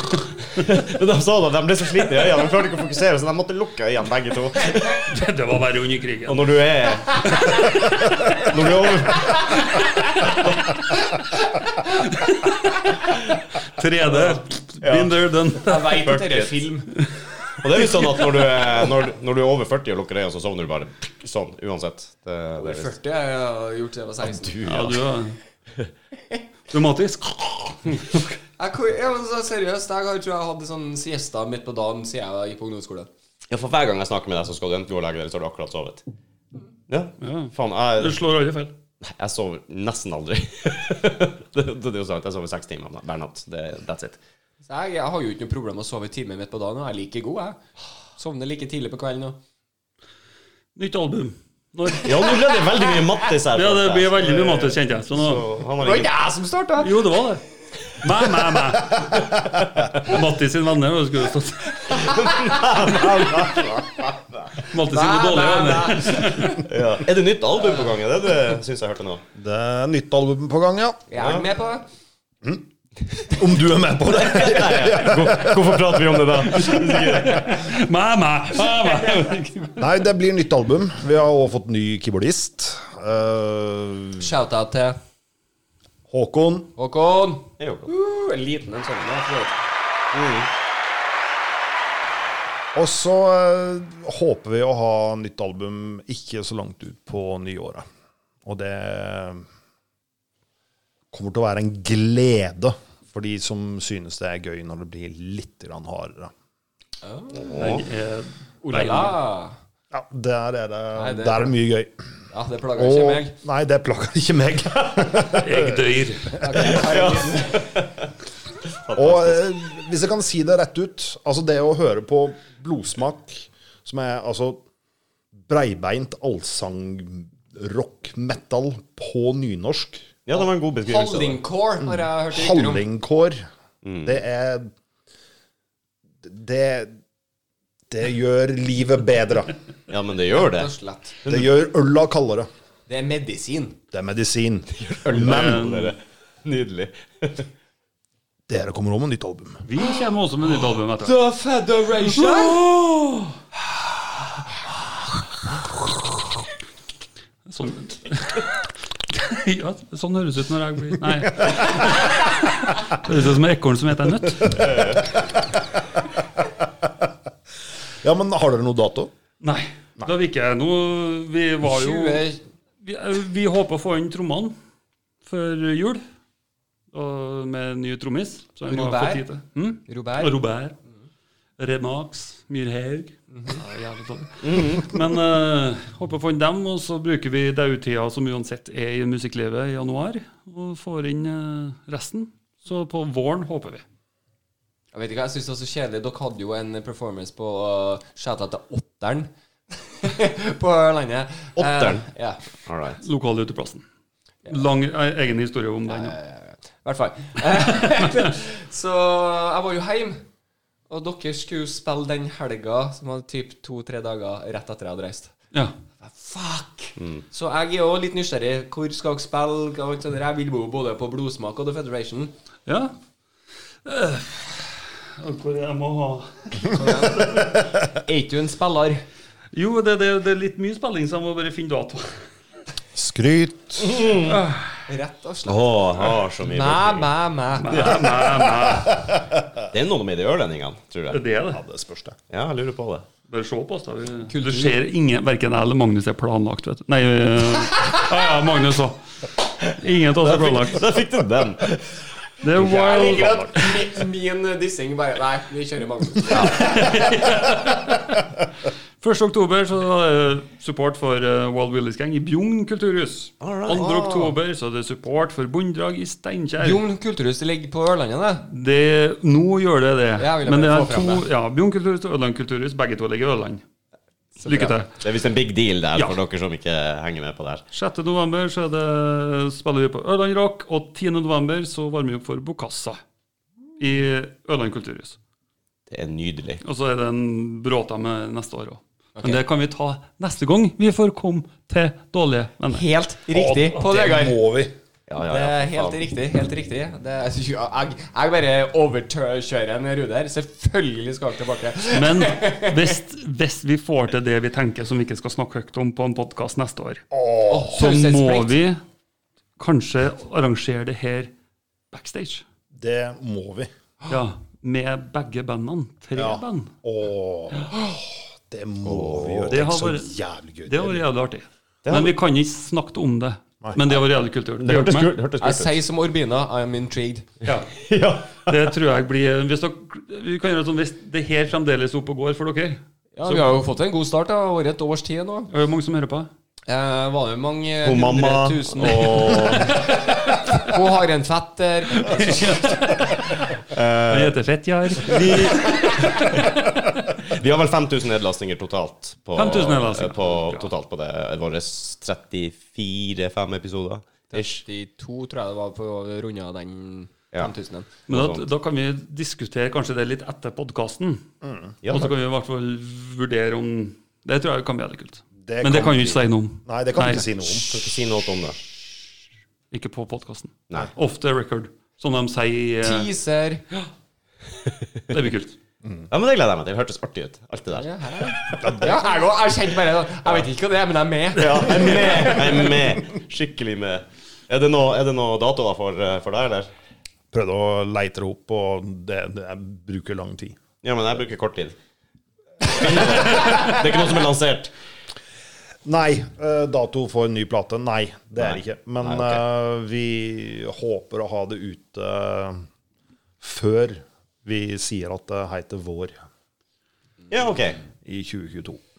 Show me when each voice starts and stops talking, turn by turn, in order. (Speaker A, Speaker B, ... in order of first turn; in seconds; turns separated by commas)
Speaker A: 0.4-5.0, Speaker B: 5.1-6.5, Speaker A: 6.3-9.8, Speaker B: 12.0-16.1, Speaker A: 14.1-15.1, Speaker C: 15.6-16.9, Speaker A: 16.0-16.6, Speaker A: 17.6-22.9, Speaker B: 17.7-18.1, Speaker C: 22.6-24.6, Speaker A: 24.2-25.1, Speaker B: 24.6-25.4, Speaker B: 26.7-28.4, Speaker C: 28.6-33.1, Speaker A: 33.5-36.0, Speaker A: 36.9-38.2, Speaker B: 37.2-38.7, Speaker A: 39.0-44.2, Speaker C: 44.7-47.6, Speaker C: 48.2-49.4, Speaker B: 50.8-52.4, Speaker A: 52.0-56.1, Speaker B: 53.5-55.5, Speaker C: 55.8-57.0, Speaker B: 56.8-59.4, Speaker A: 59.4-60.0, Speaker B: 59.9-62.2, Speaker C: 61.9-62.6, Speaker A: 61.9-64.6, Speaker B: 64.6-66.6, Speaker C: 64.8-66.6, Speaker A: 66.6-69.2, Speaker D: 69.4-71.1, Speaker C: 71.1-71.9, Speaker A: 71.2-71.5, Speaker D: 72.4-76.2, Speaker A: 74.2-77.7, Speaker B: 76.5-79.9, Speaker D: 79.8-84.3, Speaker C: 84.2-85.0, Speaker D: 86.1-86.7, Speaker C: 86.8-89.6, Speaker A: 87.6-87.9, Speaker A: 90.1-90.5, Speaker D: 92.7-97.8, Speaker D: 98.5-99.4, Speaker D: 101.1-106.3, Speaker C: 107.0-107.6, Speaker A: 107.3-107.8, Speaker B: 107.5-109.2, Speaker C: 108.6-109.6, Speaker D: 109.9-111.9, Speaker C: 111.0-111.6, Speaker C: 112.3-113.3, Speaker D: 112.8-115.8, Speaker B: 115.3-116.4, Speaker C: 116.4-117.8, Speaker A: 116.6-118.1, Speaker A: 118.7-119.5, Speaker D: 119.0-124.6, Speaker D: 125.4-130.1, Speaker A: 130.3-131.4, Speaker C: 130.9-132.8, Speaker D: 131.8-133.4, Speaker A: 133.8-134.2, Speaker D: 134.0-134.7, Speaker D: 136.2-137.0, Speaker D: 137.9-139.5, Speaker A: 139.9-140.7, Speaker C: 140.4-141.2, Speaker D: 141.3-142.5, Speaker C: 142.9-143.8, Speaker D: 143.9-145.8, Speaker A: 144.8-147.5, Speaker B: 145.1-145.9, Speaker D: 148.5-149.6, Speaker B: 149.7-151.2, Speaker C: 151.0-152.7, Speaker B: 152.4-152.8, Speaker B: 157.5-164.9, Speaker A: 164.6-165.1, Speaker D: 168.0-169.1, Speaker B: 169.4-172.2, Speaker C: 171.6-172.4, Speaker B: 172.8-174.5, Speaker B: 175.2-176.0, Speaker B: 176.9-180.8, Speaker C: 178.7-179.2, Speaker C: 179.9-180.3, Speaker B: 181.6-193.8, Speaker C: 183.3-183.6, Speaker A: 184.4-184.9, Speaker C: 194.9-202.4, Speaker A: 201.6-202.1, Speaker A: 202.7-203.0, Speaker B: 203.0-203.8, Speaker B: 204.5-206.2, Speaker C: 205.9-210.2, Speaker C: 210.9-215.3, Speaker C: 216.0-222.3, Speaker A: 217.0-217.2, Speaker B: 222.7-223.0, Speaker B: 223.8-227.6, Speaker C: 226.7-229.0, Speaker B: 229.5-232.2, Speaker D: 232.9-234.1, Speaker A: 233.8-234.4, Speaker C: 234.9-235.7, Speaker A: 235.4-237.1, Speaker C: 236.4-237.9, Speaker B: 237.6-239.1, Speaker A: 237.7-238.0, Speaker A: 239.7-241.2, Speaker B: 241.1-241.6, Speaker D: 241.5-242.2, Speaker A: 242.3-243.1, Speaker B: 243.3-249.0, Speaker C: 244.3-244.8, Speaker B: 249.6-250.9, Speaker A: 250.2-252.0, Speaker B: 252.4-253.7, Speaker C: 252.6-257.1, Speaker A: 256.3-256.6, Speaker B: 256.4-258.3, Speaker B: 259.0-266.8, Speaker A: 263.4-264.4, Speaker C: 266.6-268.5, Speaker B: 268.5-273.6, Speaker C: 270.2-271.3, Speaker C: 274.4-274.8, Speaker B: 274.4-274.9, Speaker A: 275.0-277.6, Speaker B: 277.7-283.0, Speaker B: 283.8-285.2, Speaker A: 285.9-286.6, Speaker B: 286.6-292.9, Speaker C: 289.2-289.4, Speaker C: 292.7-294.4, Speaker D: 293.3-294.7, Speaker A: 295.1-296.0, Speaker C: 295.3-302.9, Speaker B: 301.9-307.0, Speaker D: 307.1-307.8, Speaker C: 307.5-308.6, Speaker B: 307.7-308.8, Speaker B: 309.6-311.3, Speaker B: 311.9-312.4, Speaker D: 312.7-313.7, Speaker B: 314.1-316.7, Speaker D: 316.2-321.0, Speaker A: 318.9-319.6, Speaker B: 319.5-320.1, Speaker B: 320.7-325.2, Speaker A: 321.9-322.1, Speaker A: 324.6-325.8, Speaker C: 325.4-327.3, Speaker B: 327.4-327.8, Speaker A: 327.8-328.7, Speaker B: 328.4-333.5, Speaker C: 333.2-335.5, Speaker B: 335.5-336.3, Speaker C: 336.7-342.8, Speaker A: 337.8-339.9, Speaker B: 342.0-343.4, Speaker A: 343.7-344.4, Speaker B: 344.1-346.4, Speaker A: 345.0-354.6, Speaker B: 349.4-350.7, Speaker C: 354.3-357.9, Speaker A: 358.1-358.5, Speaker B: 358.1-361.2, Speaker D: 361.4-361.8, Speaker A: 361.8-362.1, Speaker B: 361.9-367.4, Speaker D: 365.4-367.8, Speaker A: 367.5-368.6, Speaker B: 369.7-373.1, Speaker C: 372.8-373.6, Speaker A: 374.7-375.0, Speaker B: 375.1-375.6, Speaker A: 376.1-378.8, Speaker C: 377.8-382.8, Speaker D: 378.6-379.0, Speaker A: 381.4-386.7, Speaker B: 381.8-382.4, Speaker D: 387.3-390.6, Speaker A: 390.8-391.8, Speaker A: 392.6-394.7, Speaker D: 395.9-402.6, Speaker A: 398.4-399.4, Speaker D: 403.4-406.2, Speaker A: 407.3-407.8, Speaker D: 408.0-408.8